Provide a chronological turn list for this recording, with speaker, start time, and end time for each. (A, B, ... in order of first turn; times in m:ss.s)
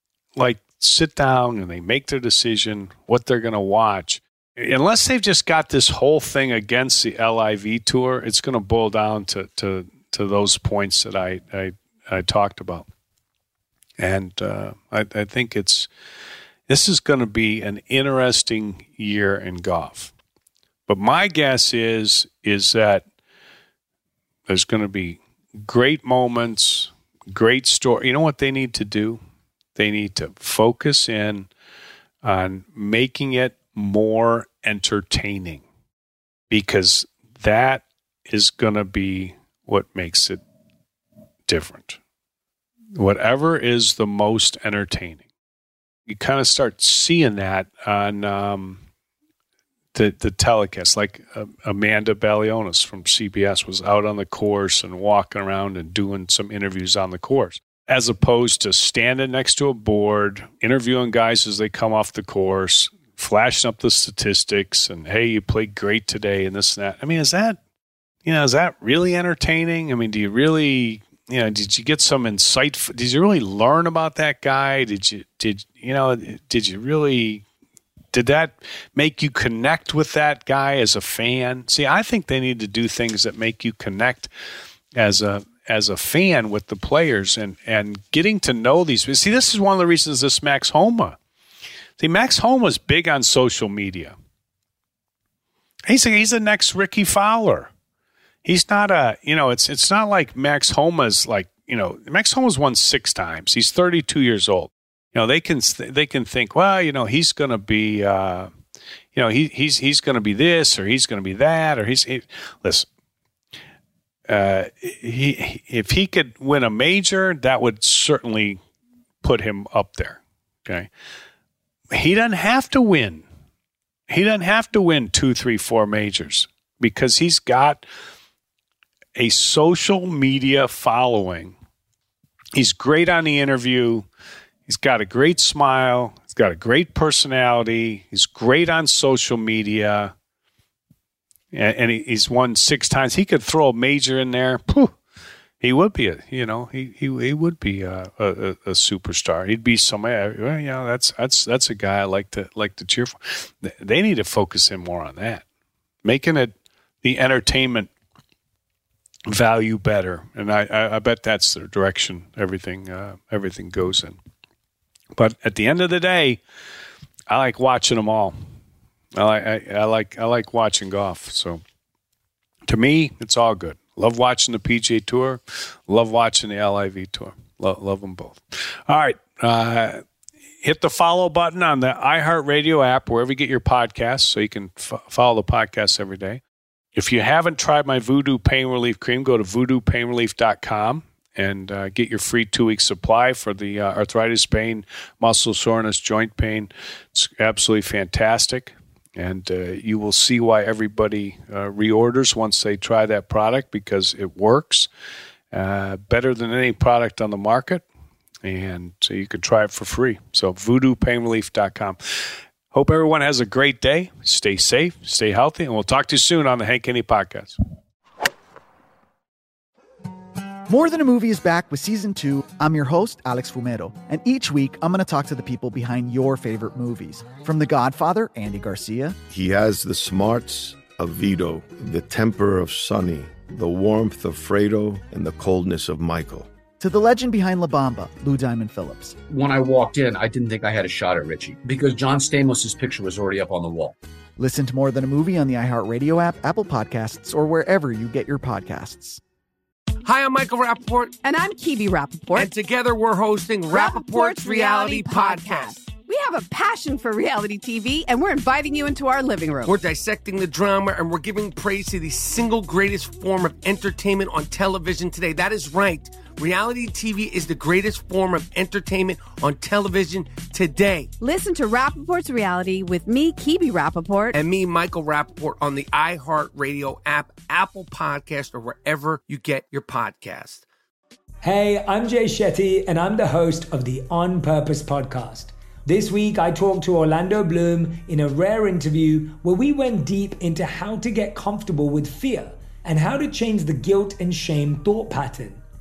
0:00.4-0:12.9 A
0:14.0-0:15.9 A
0:16.7-0:20.1 A
0:20.9-0:23.0 A
0:24.5-0:29.2 A
0:29.7-0:31.5 A
0:32.2-0:35.6 A
0:36.5-0:40.4 A
0:41.5-0:42.0 A
0:42.9-0:45.2 A
0:46.1-0:48.8 A
0:49.9-1:07.6 A
1:08.2-1:17.4 A
1:18.1-1:24.3 A
1:25.0-1:31.2 A
1:32.0-1:34.1 A
1:35.9-1:37.7 A
1:38.4-1:48.5 A
1:49.1-1:52.9 A
1:54.3-1:58.6 A
1:59.2-2:00.9 A
2:01.9-2:03.2 A
2:04.1-2:07.8 A
2:09.2-2:11.6 A
2:12.5-2:14.1 A
2:14.7-2:20.1 A
2:21.5-2:24.9 A
2:25.6-2:35.4 A
2:36.0-2:37.9 A
2:39.3-2:44.2 A
2:45.2-2:46.4 A
2:47.3-2:48.3 A
2:49.1-2:51.6 A
2:52.7-3:00.0 A
3:00.6-3:06.4 A
3:06.9-3:24.9 A
3:25.5-3:27.8 A
3:28.4-3:37.6 A
3:40.7-3:49.2 B
3:49.3-3:56.5 C
3:56.8-3:59.2 B
3:59.3-4:04.0 D
4:04.4-4:09.2 B
4:10.0-4:11.2 E
4:11.2-4:12.5 F
4:12.3-4:15.7 E
4:13.7-4:19.8 F
4:19.6-4:31.1 E
4:31.2-4:34.4 F
4:34.3-4:40.6 E
4:41.4-4:55.6 G